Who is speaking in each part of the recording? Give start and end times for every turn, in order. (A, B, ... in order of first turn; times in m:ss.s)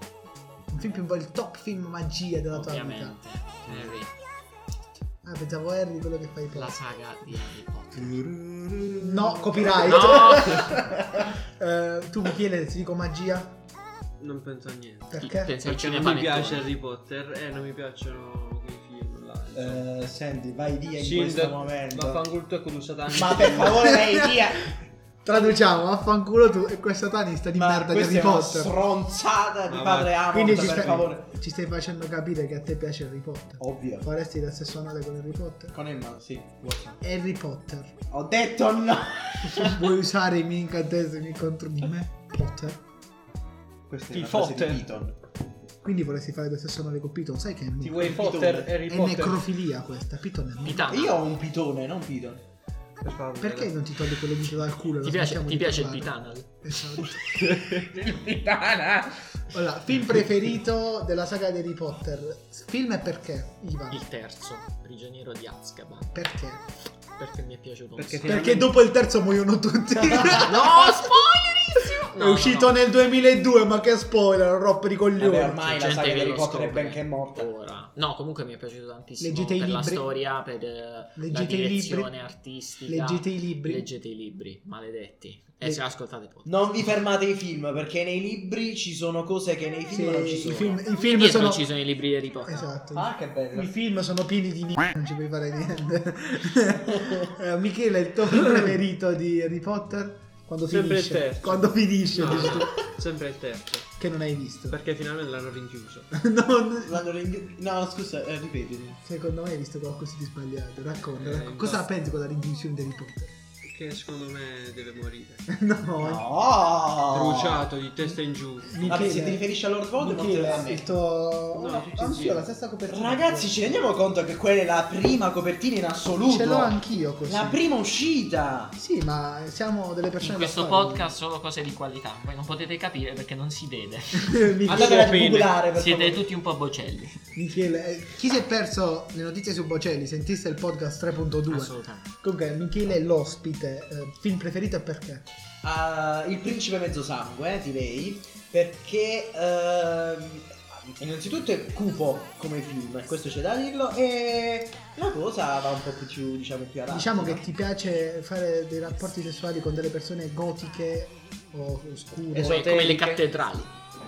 0:00.7-0:03.2 A
0:02.5-0:04.1 B
0:03.7-0:04.0 C
0:05.2-0:06.8 A
0:06.5-0:08.2 B
0:08.0-0:11.2 D
0:09.0-0:10.8 A
0:09.8-0:10.7 B
0:11.6-0:13.6 A
0:14.2-0:19.8 C
0:15.1-0:15.6 A
0:15.2-0:16.7 B
0:19.6-0:22.2 D
0:21.0-0:24.0 C
0:23.1-0:24.7 D
0:23.6-0:24.3 A
0:25.2-0:28.7 A
0:27.5-0:31.3 D
0:29.7-0:31.1 C
0:30.3-0:35.8 A
0:33.6-0:34.1 D
0:35.7-0:37.0 D
0:37.0-0:37.9 A
0:38.1-0:39.8 D
0:39.4-0:42.8 A
0:43.9-0:45.2 D
0:44.1-0:44.8 C
0:45.8-0:48.2 A
0:47.8-0:49.5 C
0:48.0-0:48.8 D
0:48.8-0:51.1 A
0:50.6-0:51.2 B
0:50.9-0:52.4 D
0:53.0-0:53.8 C
0:53.4-0:57.2 A
0:55.0-0:56.5 B
0:57.3-0:57.8 C
0:57.8-0:59.4 D
0:59.5-1:04.0 A
1:03.9-1:06.2 B
1:06.1-1:06.6 A
1:07.2-1:08.6 B
1:08.0-1:08.7 C
1:08.2-1:08.5 D
1:08.2-1:11.0 A
1:10.3-1:12.8 B
1:12.0-1:15.9 A
1:15.2-1:17.5 D
1:15.8-1:26.7 B
1:19.2-1:20.0 A
1:21.2-1:22.1 A
1:22.9-1:23.8 A
1:26.5-1:30.8 D
1:29.9-1:31.6 A
1:31.1-1:32.7 B
1:32.5-1:42.8 A
1:32.9-1:33.7 D
1:40.7-1:43.9 C
1:44.0-1:44.8 A
1:44.7-1:46.1 C
1:46.1-1:47.0 A
1:46.8-1:49.0 D
1:49.0-1:53.3 A
1:51.2-1:51.9 C
1:53.6-1:55.4 C
1:55.5-1:56.2 A
1:56.0-1:57.7 D
1:57.1-1:58.9 C
1:58.7-2:03.8 A
1:58.9-2:00.9 D
2:01.5-2:02.4 C
2:02.9-2:06.8 D
2:06.3-2:07.6 A
2:07.3-2:08.8 D
2:08.8-2:11.1 A
2:10.2-2:14.4 B
2:14.2-2:15.3 A
2:14.7-2:15.5 C
2:14.7-2:16.2 D
2:15.7-2:17.2 B
2:17.4-2:25.2 A
2:21.5-2:22.1 B
2:25.6-2:37.4 D
2:36.9-2:42.7 A
2:42.3-2:43.7 B
2:42.4-2:43.2 C